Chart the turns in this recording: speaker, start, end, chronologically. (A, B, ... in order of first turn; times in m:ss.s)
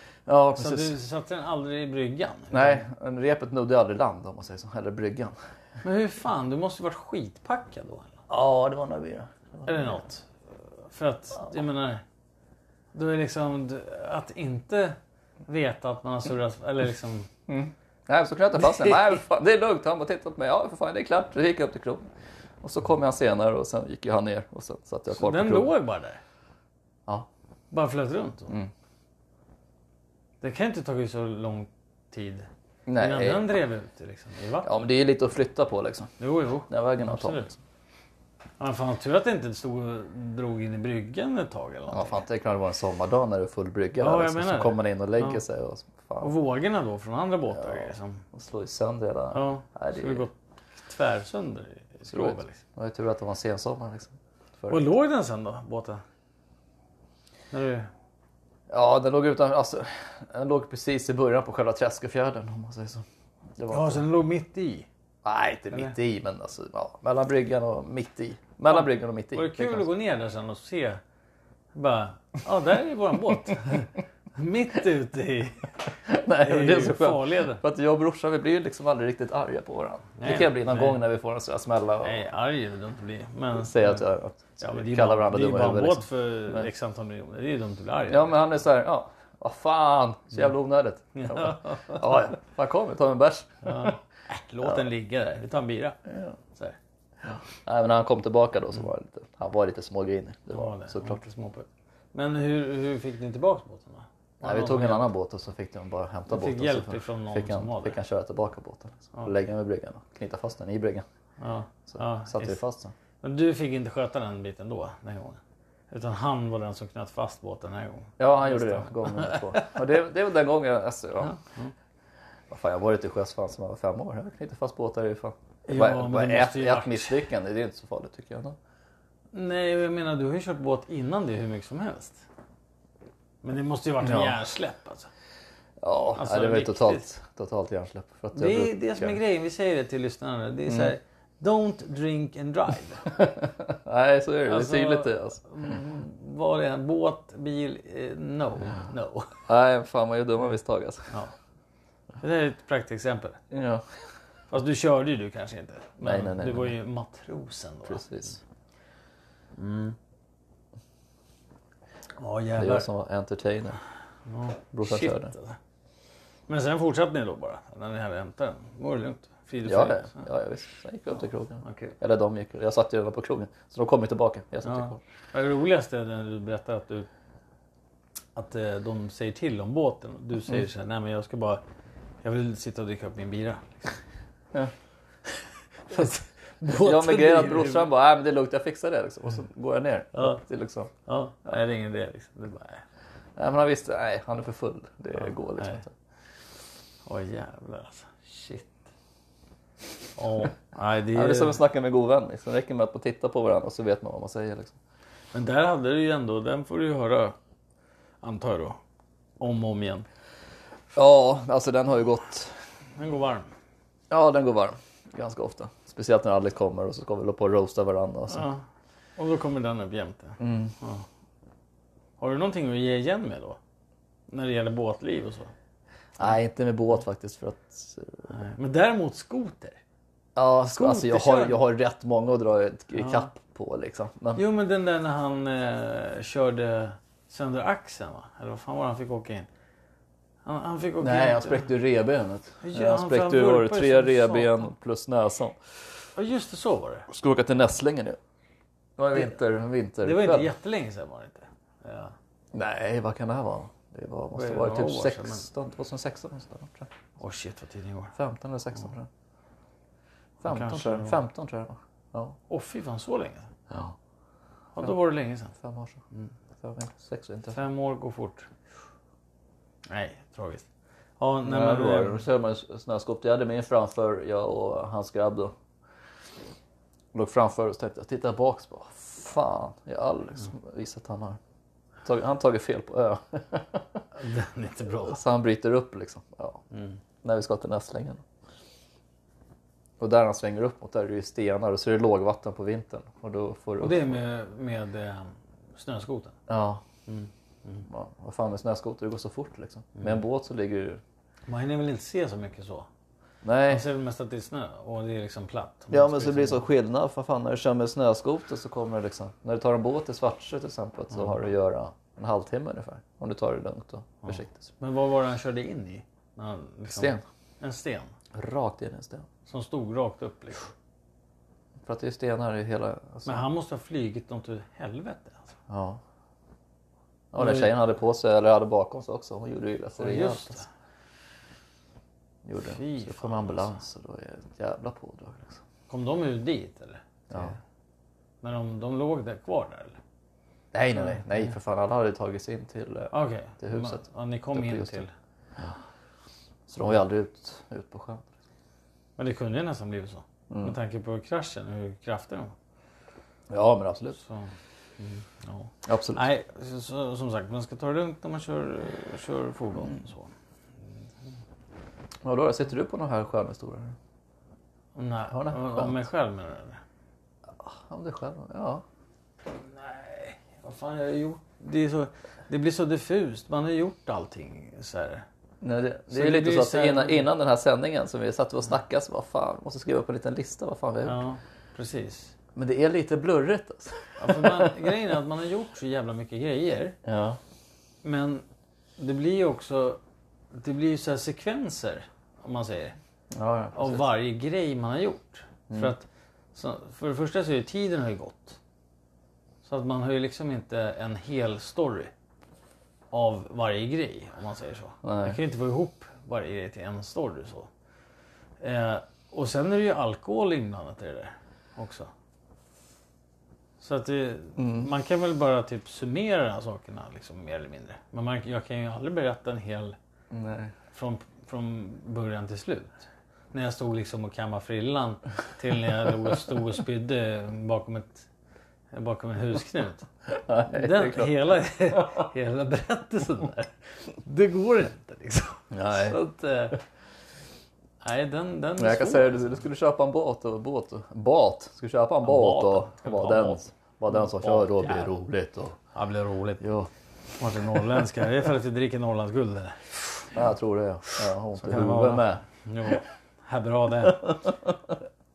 0:00.3-0:01.0 A
0:00.6-0:02.9 B
0:02.5-0:05.4 A
0:05.8-0:08.2 B
0:08.3-0:10.0 A
0:09.6-0:10.3 B
0:10.9-0:12.0 B
0:12.9-0:17.3 B
0:17.5-0:22.1 A
0:22.6-0:25.7 A
0:25.1-0:26.2 B
0:27.7-0:28.5 B
0:30.4-0:34.7 B
0:32.9-0:33.5 A
0:34.6-0:36.1 A
0:36.2-0:37.5 B
0:36.7-0:37.6 A
0:38.6-0:42.2 B
0:41.9-0:46.3 A
0:44.0-0:45.4 B
0:46.2-0:48.2 B
0:47.5-0:50.2 A
0:49.3-0:50.3 B
0:50.8-0:52.6 B
0:52.1-0:54.9 A
0:54.7-0:56.0 B
0:57.5-0:57.9 B
0:58.7-1:03.1 A
1:03.6-1:04.0 A
1:03.7-1:04.9 B
1:05.2-1:09.9 A
1:08.7-1:11.0 B
1:11.7-1:15.9 B
1:16.1-1:22.2 A
1:16.4-1:17.6 B
1:20.2-1:21.0 B
1:22.0-1:24.0 B
1:23.5-1:26.7 A
1:24.6-1:28.3 B
1:28.1-1:34.0 A
1:31.2-1:32.2 B
1:33.6-1:36.0 B
1:36.1-1:36.4 A
1:36.5-1:36.8 B
1:37.5-1:41.2 A
1:40.5-1:45.1 B
1:44.4-1:51.0 A
1:46.3-1:48.0 B
1:51.4-1:52.6 B
1:51.9-1:52.9 A
1:53.2-1:59.8 B
1:58.2-2:01.4 A
2:01.2-2:01.7 B
2:02.5-2:08.6 A
2:05.7-2:07.3 B
2:09.3-2:12.2 B
2:13.4-2:15.1 B
2:14.0-2:14.4 A
2:15.8-2:19.2 A
2:16.2-2:17.1 B
2:18.4-2:23.1 B
2:20.7-2:20.9 A
2:23.1-2:25.4 A
2:24.5-2:29.4 B
2:29.5-2:31.1 A
2:32.2-2:33.4 B
2:33.5-2:33.8 A
2:34.5-2:38.0 B
2:36.0-2:36.7 A
2:37.9-2:38.4 A
2:39.6-2:40.0 B
2:42.2-2:42.9 B
2:42.6-2:43.8 A
2:44.3-2:45.6 B
2:44.8-2:45.3 A
2:46.5-2:50.3 B
2:49.6-2:55.0 A
2:51.6-2:52.0 B
2:54.6-2:57.1 B
2:58.4-3:01.6 B
3:02.2-3:04.0 B
3:05.9-3:07.9 B
3:06.8-3:10.9 A
3:10.1-3:10.4 B
3:11.1-3:12.8 B
3:13.4-3:15.9 A
3:17.1-3:18.8 B
3:20.2-3:21.6 B
3:21.1-3:24.8 A
3:25.3-3:27.4 B
3:28.2-3:28.8 B
3:29.4-3:30.1 B
3:31.0-3:32.6 A
3:33.0-3:33.5 B
3:34.1-3:38.5 A
3:38.3-3:38.6 B
3:39.2-3:41.0 B
3:40.4-3:40.7 A
3:42.2-3:43.6 B
3:44.3-3:45.5 B
3:46.2-3:48.3 A
3:48.3-3:49.8 B
3:50.4-3:54.4 A
3:50.7-3:51.6 B
3:53.0-3:53.3 B
3:54.4-3:59.5 B
4:00.4-4:01.7 B
4:01.0-4:05.8 A
4:02.6-4:04.7 B
4:06.2-4:07.1 B
4:07.1-4:08.2 A
4:09.0-4:10.5 A
4:10.0-4:12.2 B
4:12.5-4:16.9 A
4:14.3-4:15.5 B
4:17.2-4:18.2 B
4:18.2-4:19.1 A
4:20.4-4:22.4 A
4:20.5-4:21.2 B
4:22.5-4:23.5 B
4:23.7-4:24.0 A
4:24.8-4:25.6 B
4:25.6-4:26.0 A
4:26.6-4:27.6 A
4:27.5-4:28.5 B
4:29.9-4:30.7 B
4:31.2-4:32.2 B
4:31.4-4:35.5 A
4:37.1-4:41.4 A
4:42.0-4:44.0 A
4:44.2-4:45.2 B
4:45.0-4:46.6 A
4:46.7-4:47.0 B
4:47.2-4:48.2 A
4:50.0-4:54.2 A
4:53.8-4:56.4 B
4:56.5-4:56.8 A
4:57.1-4:57.8 B
4:57.9-5:01.0 A
5:01.5-5:02.9 B
5:03.4-5:03.9 A
5:03.7-5:06.6 B
5:05.9-5:14.7 A
5:14.2-5:18.1 B
5:16.9-5:17.2 A
5:18.3-5:19.3 A
5:19.5-5:20.7 B
5:21.8-5:23.4 A
5:23.2-5:25.5 B
5:25.7-5:26.0 A
5:27.3-5:30.6 A
5:27.4-5:27.7 B
5:30.0-5:30.7 B
5:32.4-5:35.6 A
5:32.6-5:33.8 B
5:35.9-5:37.6 B
5:38.4-5:40.0 B
5:40.7-5:45.0 A
5:43.1-5:45.1 B
5:46.7-5:48.3 A
5:49.2-5:52.5 B
5:50.5-5:50.8 A
5:53.5-5:54.2 A
5:54.2-6:00.3 B
5:55.8-5:56.3 A
6:02.2-6:04.0 A
6:05.0-6:06.8 B
6:05.3-6:06.0 A
6:07.6-6:08.8 A
6:09.5-6:15.2 B
6:15.6-6:21.2 A
6:16.1-6:17.3 B
6:21.0-6:22.3 B
6:22.6-6:24.9 A
6:24.2-6:27.0 B
6:27.0-6:27.4 A
6:28.0-6:28.4 B
6:29.0-6:30.0 B
6:30.5-6:33.0 B
6:33.3-6:34.0 A
6:33.8-6:38.6 B
6:35.7-6:35.9 A
6:39.6-6:42.1 B
6:43.1-6:47.7 B
6:45.0-6:45.4 A
6:48.6-6:52.1 B
6:53.8-7:00.0 B
6:54.6-6:54.9 A
7:00.3-7:00.7 A
7:00.9-7:08.3 B
7:08.9-7:10.1 B
7:10.3-7:12.1 A
7:10.7-7:16.8 B
7:15.7-7:16.2 A
7:18.0-7:19.6 B
7:18.8-7:25.8 A
7:22.2-7:25.1 B
7:25.9-7:26.6 B
7:26.6-7:26.9 A
7:27.4-7:30.3 B
7:30.3-7:32.4 A
7:31.6-7:34.5 B
7:34.1-7:34.7 A